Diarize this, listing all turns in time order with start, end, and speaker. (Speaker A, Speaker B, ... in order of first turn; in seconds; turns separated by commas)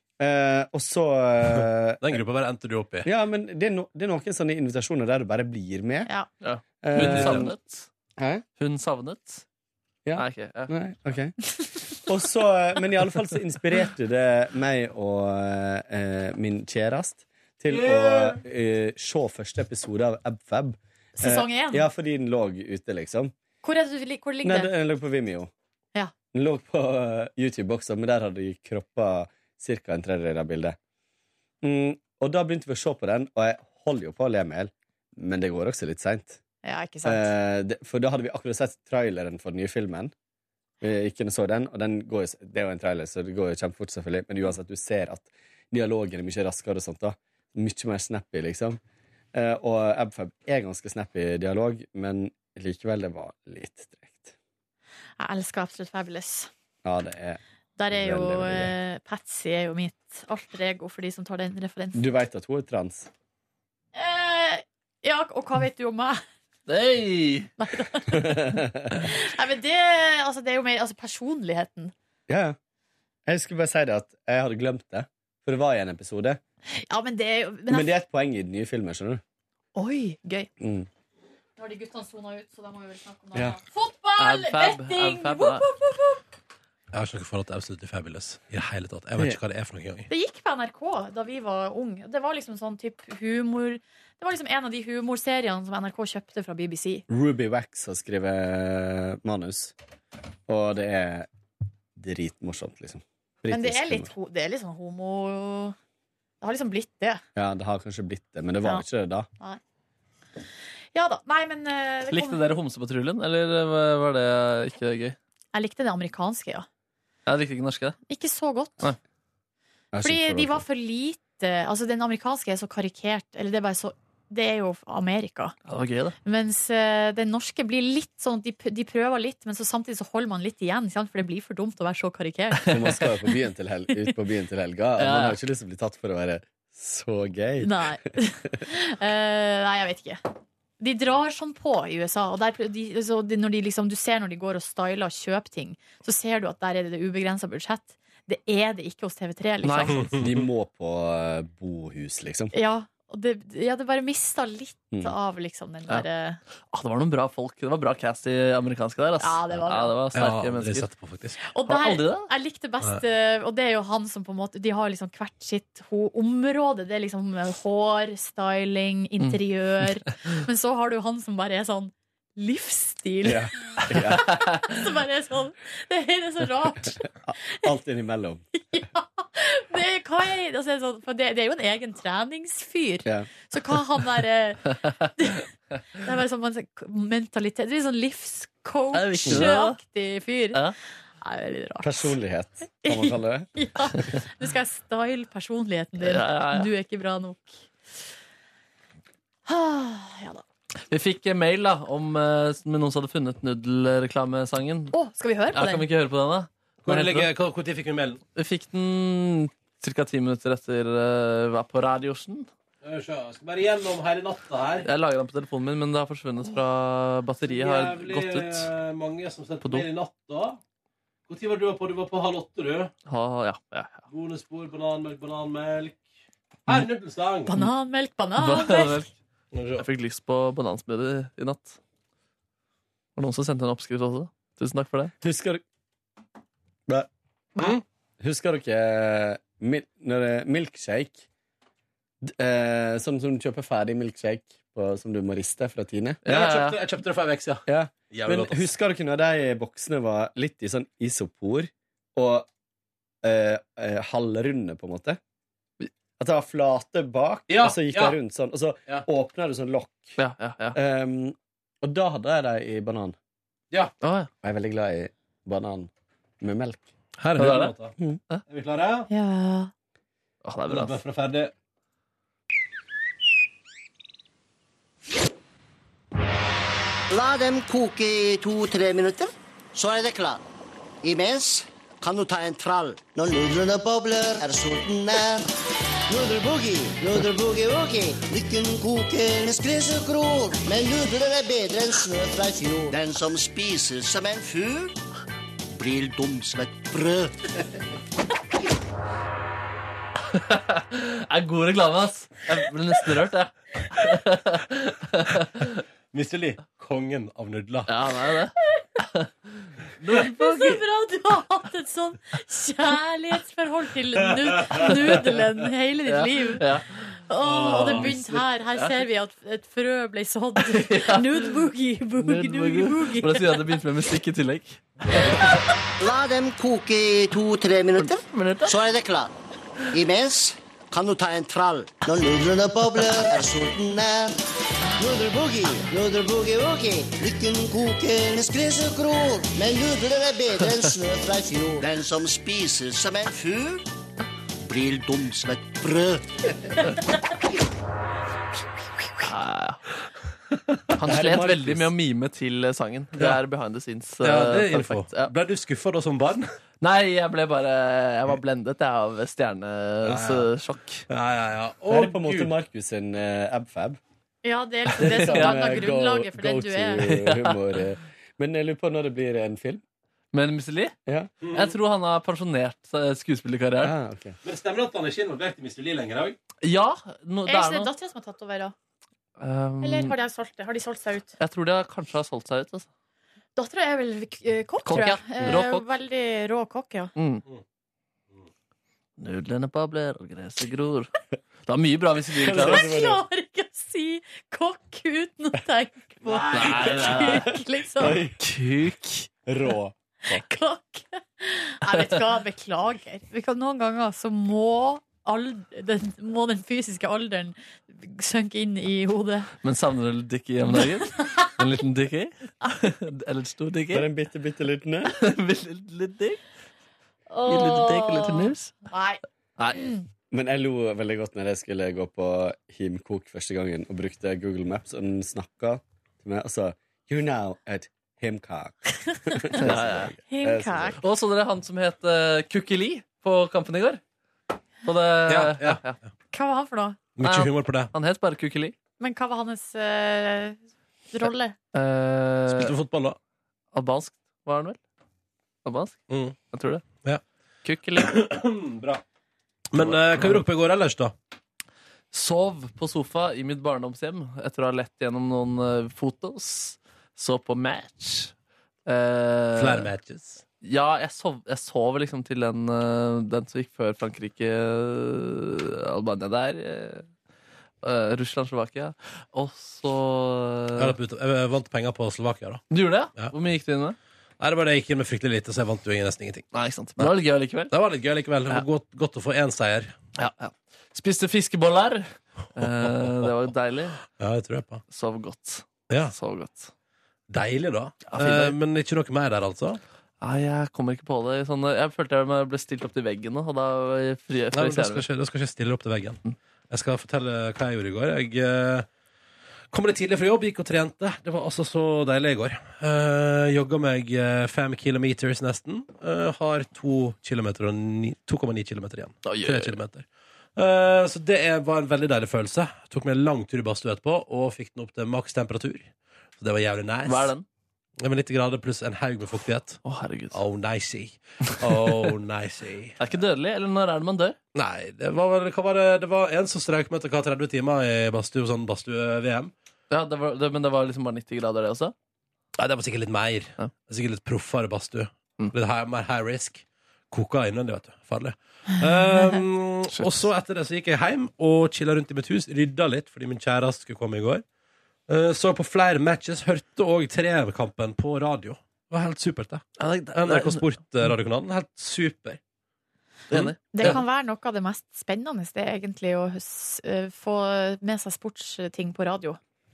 Speaker A: 0.2-2.2, Speaker B: 2.0-3.1, Speaker A: 3.0-6.1, Speaker C: 6.4-7.9, Speaker A: 6.8-7.6, Speaker B: 7.0-7.4, Speaker A: 8.2-8.4, Speaker C: 8.6-9.4, Speaker A: 10.1-23.3, Speaker C: 10.2-10.7, Speaker B: 17.7-18.4, Speaker D: 21.2-21.9, Speaker D: 23.6-24.7, Speaker A: 24.4-25.5, Speaker A: 26.3-30.8, Speaker A: 31.6-36.4, Speaker D: 36.6-37.3, Speaker A: 37.0-40.1, Speaker A: 40.8-48.8, Speaker A: 49.3-54.4, Speaker D: 55.2-56.5, Speaker A: 56.8-57.4, Speaker D: 57.8-62.0, Speaker A: 57.9-58.8, Speaker A: 62.0-63.1, Speaker D: 64.0-66.2, Speaker C: 66.7-67.5, Speaker D: 67.6-71.9, Speaker A: 68.1-69.0, Speaker A: 72.3-72.6, Speaker A: 73.3-76.4, Speaker D: 76.7-77.9, Speaker A: 77.7-79.2, Speaker D: 79.8-80.5, Speaker A: 80.6-80.9, Speaker D: 81.6-86.2, Speaker C: 84.2-85.7, Speaker B: 86.9-90.1, Speaker D: 90.1-97.0, Speaker A: 97.1-99.8, Speaker A: 100.5-101.3, Speaker A: 102.0-104.1, Speaker D: 103.5-105.8, Speaker D: 106.4-107.2, Speaker A: 107.3-109.3, Speaker D: 111.0-112.4, Speaker C: 112.1-115.2, Speaker D: 115.5-116.7, Speaker C: 117.3-118.0, Speaker D: 118.1-118.9, Speaker A: 119.9-120.6, Speaker D: 120.0-125.5, Speaker C: 125.7-126.2, Speaker D: 126.2-133.1, Speaker A: 132.7-137.9, Speaker C: 135.0-135.4, Speaker D: 137.6-140.2, Speaker D: 140.8-150.1, Speaker C: 149.6-150.1, Speaker B: 150.0-150.4, Speaker A: 150.2-152.5, Speaker D: 152.5-156.4, Speaker C: 156.7-160.9, Speaker D: 159.2-160.0, Speaker B: 160.1-161.4, Speaker D: 161.5-177.1, Speaker C: 161.7-162.3, Speaker A: 173.2-174.3, Speaker A: 177.2-178.4, Speaker D: 178.5-185.5, Speaker D: 186.0-190.7, Speaker C: 188.9-189.8, Speaker D: 191.2-192.2, Speaker A: 191.8-193.5, Speaker D: 192.8-197.6, Speaker C: 196.0-196.7, Speaker D: 199.5-200.4, Speaker C: 200.9-204.9, Speaker D: 204.9-205.8, Speaker C: 205.5-207.3, Speaker B: 206.8-208.2, Speaker C: 208.3-212.5, Speaker B: 212.8-214.9, Speaker C: 214.9-218.7, Speaker B: 217.5-220.6, Speaker B: 221.3-222.9, Speaker C: 223.1-224.1, Speaker B: 224.1-226.0, Speaker B: 226.7-227.6, Speaker D: 227.5-229.1, Speaker C: 228.4-229.1, Speaker B: 229.5-229.8, Speaker C: 229.8-231.8, Speaker C: 233.2-235.1, Speaker A: 235.2-235.6, Speaker A: 238.2-241.3, Speaker A: 242.2-246.2, Speaker C: 246.2-246.8, Speaker B: 246.3-248.7, Speaker A: 247.7-252.5, Speaker A: 253.2-255.2, Speaker A: 256.2-260.2, Speaker B: 257.5-258.2, Speaker C: 260.2-260.8, Speaker A: 260.8-263.2, Speaker C: 264.0-264.3, Speaker A: 264.4-266.9, Speaker B: 267.2-267.9, Speaker C: 267.4-267.7, Speaker B: 268.5-269.1, Speaker D: 269.1-269.7, Speaker C: 270.4-271.0, Speaker B: 270.7-271.5, Speaker E: 277.1-280.4, Speaker E: 281.0-285.5, Speaker E: 286.1-294.9, Speaker E: 295.7-297.4, Speaker C: 300.3-305.8, Speaker B: 306.1-307.9, Speaker C: 307.9-308.6, Speaker C: 309.8-310.8, Speaker D: 310.1-316.6, Speaker B: 314.6-314.9, Speaker C: 316.1-317.2, Speaker D: 317.3-323.8, Speaker B: 317.4-318.2, Speaker C: 317.9-319.1, Speaker C: 320.6-321.5, Speaker C: 322.2-325.6, Speaker E: 326.0-329.3, Speaker C: 328.0-328.8, Speaker E: 329.9-334.4, Speaker E: 335.0-343.8, Speaker E: 344.6-346.4, Speaker C: 349.2-349.8, Speaker C: 350.9-355.3, Speaker A: 351.1-351.9, Speaker B: 354.2-356.5, Speaker C: 356.8-361.1, Speaker B: 360.1-360.5, Speaker B: 361.1-362.5, Speaker A: 361.9-364.0, Speaker D: 364.4-367.1, Speaker C: 365.0-365.6, Speaker A: 365.0-369.8, Speaker C: 367.0-367.7, Speaker C: 370.3-370.9, Speaker A: 371.1-371.3, Speaker B: 371.4-371.7, Speaker C: 371.5-373.9, Speaker A: 373.8-374.4, Speaker B: 374.4-376.4, Speaker C: 376.6-377.9, Speaker D: 377.5-378.7, Speaker C: 379.4-380.1, Speaker D: 379.8-381.3, Speaker C: 381.4-382.9, Speaker D: 383.6-387.1, Speaker C: 384.9-385.9, Speaker C: 387.2-387.4, Speaker C: 389.2-391.1, Speaker C: 391.7-392.9, Speaker A: 392.4-393.2, Speaker D: 392.5-398.2, Speaker B: 396.3-397.2, Speaker C: 396.5-397.5, Speaker A: 398.0-398.4, Speaker C: 398.4-399.3, Speaker A: 399.5-400.4, Speaker D: 400.3-409.5, Speaker C: 409.6-414.1, Speaker D: 411.1-411.5, Speaker A: 413.9-415.1, Speaker C: 415.1-416.4, Speaker D: 417.3-419.2, Speaker C: 417.5-418.8, Speaker C: 419.6-419.9, Speaker D: 419.8-420.1, Speaker A: 420.3-431.0, Speaker C: 429.6-430.1, Speaker D: 430.3-431.0, Speaker C: 431.0-434.0, Speaker C: 434.8-436.0, Speaker B: 435.3-435.8, Speaker D: 436.3-437.0, Speaker B: 437.2-437.9, Speaker C: 437.2-438.8, Speaker D: 439.0-440.6, Speaker D: 441.1-441.6, Speaker C: 441.7-442.7, Speaker B: 442.5-443.2, Speaker C: 443.7-444.8, Speaker C: 445.6-446.9, Speaker B: 446.1-446.4, Speaker C: 447.6-448.1, Speaker B: 447.9-449.0, Speaker B: 449.7-451.1, Speaker C: 449.8-450.4, Speaker C: 452.1-458.3, Speaker C: 458.9-459.9, Speaker B: 459.6-460.4, Speaker C: 460.6-467.1, Speaker C: 467.8-470.9, Speaker B: 470.8-472.6, Speaker C: 472.7-474.0, Speaker B: 474.4-477.1, Speaker C: 476.5-477.7, Speaker B: 477.7-480.0, Speaker C: 480.2-484.0, Speaker B: 482.6-483.4, Speaker B: 484.1-484.8, Speaker C: 484.9-486.7, Speaker B: 487.3-489.8, Speaker C: 488.1-488.6, Speaker C: 490.2-495.1, Speaker B: 494.5-498.9, Speaker B: 499.7-517.3, Speaker C: 509.2-509.8, Speaker C: 517.1-517.5, Speaker B: 518.0-519.8, Speaker C: 519.8-520.4, Speaker B: 520.3-523.0, Speaker C: 521.5-522.0, Speaker C: 523.0-524.4, Speaker B: 524.5-529.5, Speaker C: 529.9-531.9, Speaker B: 532.6-544.4, Speaker C: 539.9-540.2, Speaker B: 545.1-552.4, Speaker C: 549.8-550.7, Speaker C: 553.3-554.0, Speaker B: 553.3-554.0, Speaker D: 553.7-559.4